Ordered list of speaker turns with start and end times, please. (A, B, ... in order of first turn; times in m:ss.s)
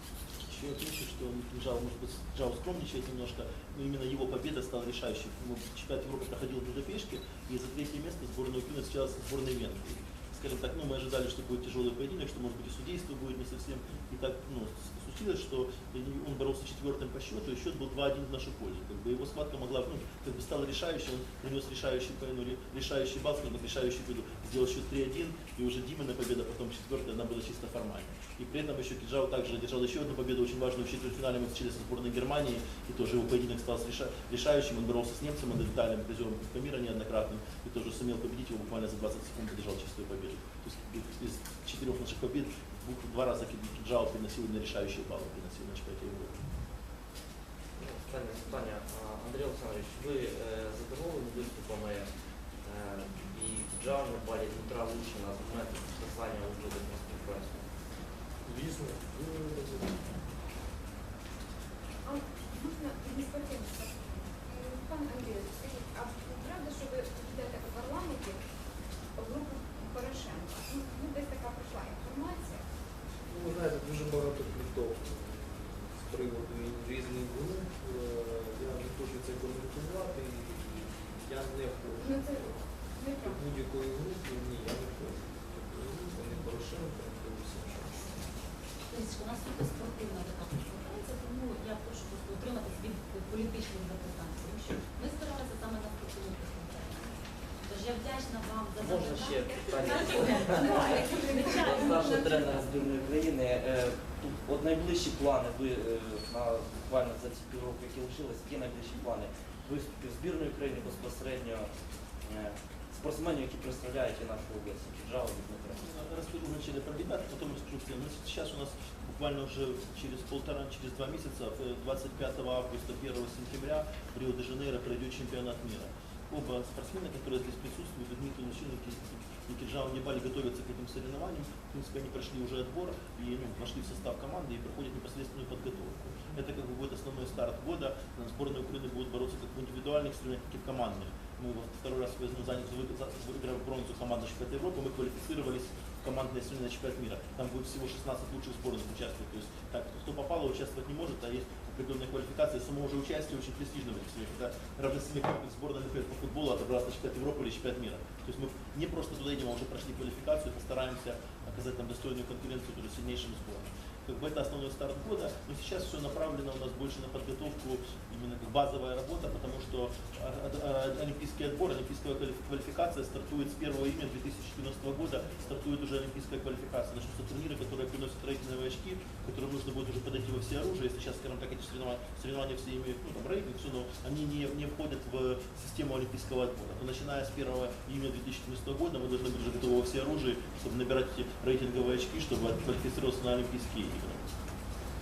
0:00.5-0:46.4 A
0:47.8-0:52.1 B
0:52.6-0:57.6 B
0:58.4-1:00.1 C
1:02.0-1:08.4 D
1:09.2-1:12.6 D
1:13.3-1:22.6 C
1:22.0-1:23.4 D
1:23.2-1:28.2 C
1:28.9-1:37.1 E
1:37.6-1:42.5 E
1:38.8-1:51.7 B
1:39.5-1:42.4 D
1:52.2-1:55.8 B
1:55.8-3:14.2 A